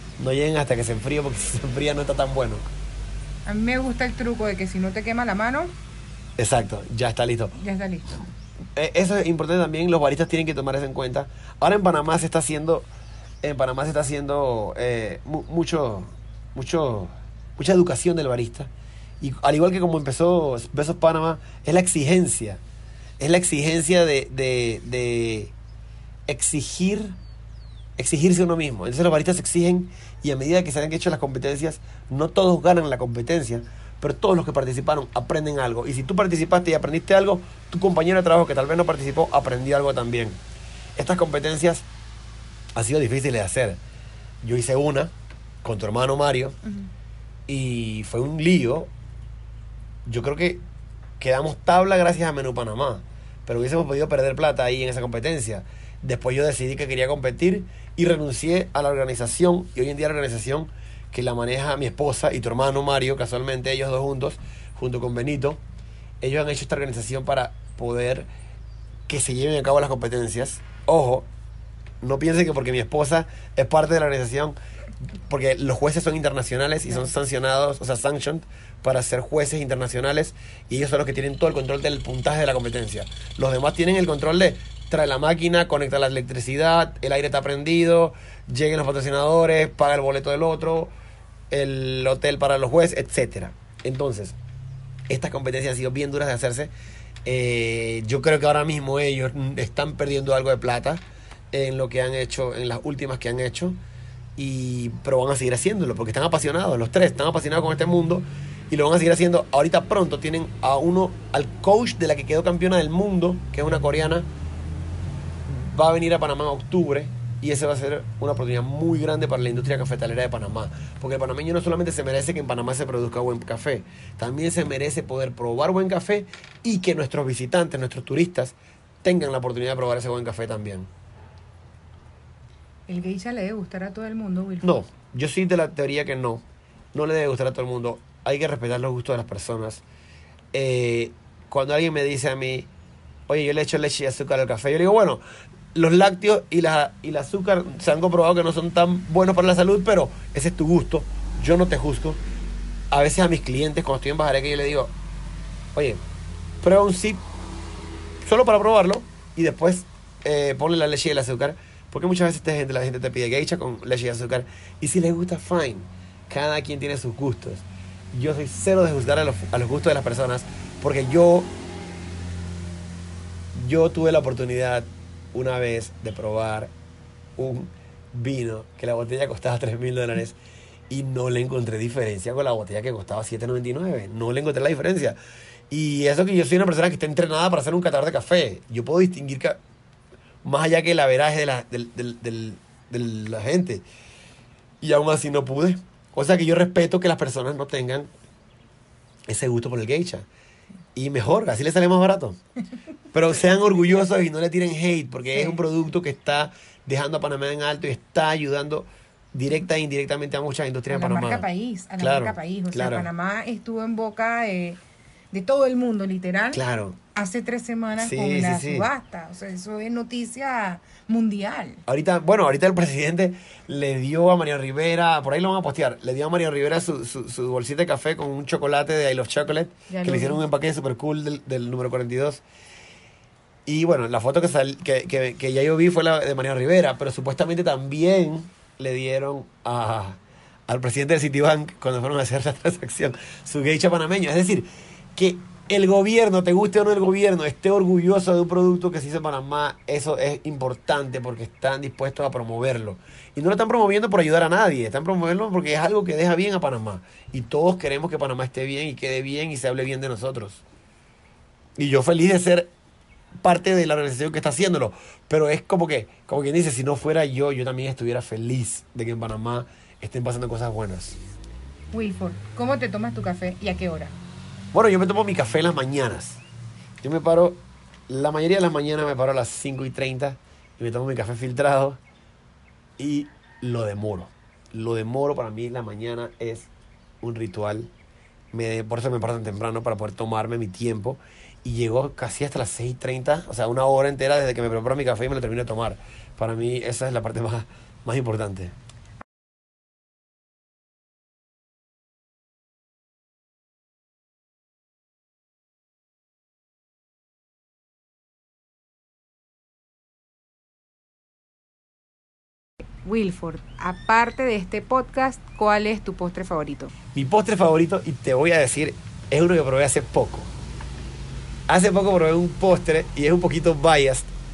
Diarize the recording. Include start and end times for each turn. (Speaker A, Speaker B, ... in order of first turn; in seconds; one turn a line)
Speaker A: 0.2-2.7
Speaker B: 3.5-5.7
Speaker A: 6.4-7.5
Speaker B: 7.5-8.3
Speaker A: 8.8-12.9
Speaker A: 13.4-22.6
Speaker A: 23.2-25.5
Speaker A: 26.3-27.2
Speaker A: 28.0-40.4
Speaker A: 41.0-41.9
Speaker A: 42.8-43.8
Speaker A: 44.4-45.1
Speaker A: 45.6-46.6
Speaker A: 47.5-48.9
Speaker A: 50.1-50.6
Speaker A: 51.2-65.6
Speaker A: 66.2-68.3
Speaker A: 69.1-71.3
Speaker A: 72.0-74.6
Speaker A: 75.3-90.9
Speaker A: 91.5-94.4
Speaker A: 95.1-96.7
Speaker A: 97.2-103.8
Speaker A: 104.4-114.3
Speaker A: 115.5-130.9
Speaker B: 132.9-134.8
Speaker A: 134.6-139.8
Speaker A: 140.5-142.7
Speaker A: 143.3-145.2
Speaker A: 145.7-152.2
Speaker A: 152.9-154.9
Speaker A: 155.8-156.0
Speaker A: 156.6-157.2
Speaker A: 158.2-171.5
Speaker A: 173.5-176.7
Speaker A: 177.4-180.4
Speaker A: 180.9-185.2
Speaker A: 185.7-189.6
Speaker A: 190.4-193.8
Speaker A: 194.8-198.1
Speaker A: 199.3-200.3
Speaker A: 200.9-202.4
Speaker A: 203.1-211.5
Speaker B: 210.9-216.6
Speaker A: 212.0-213.1
Speaker A: 216.5-217.0
Speaker B: 217.1-221.8
Speaker A: 218.0-218.9
Speaker A: 221.9-232.4
Speaker B: 229.9-230.4
Speaker A: 233.7-260.6
Speaker A: 261.8-262.7
Speaker A: 263.4-271.2
Speaker B: 271.9-274.2
Speaker A: 274.7-276.4
Speaker A: 277.0-282.0
Speaker A: 283.0-286.7
Speaker A: 287.2-287.9
Speaker A: 288.5-298.8
Speaker B: 313.0-316.9
Speaker A: 317.1-320.5
Speaker A: 321.7-324.3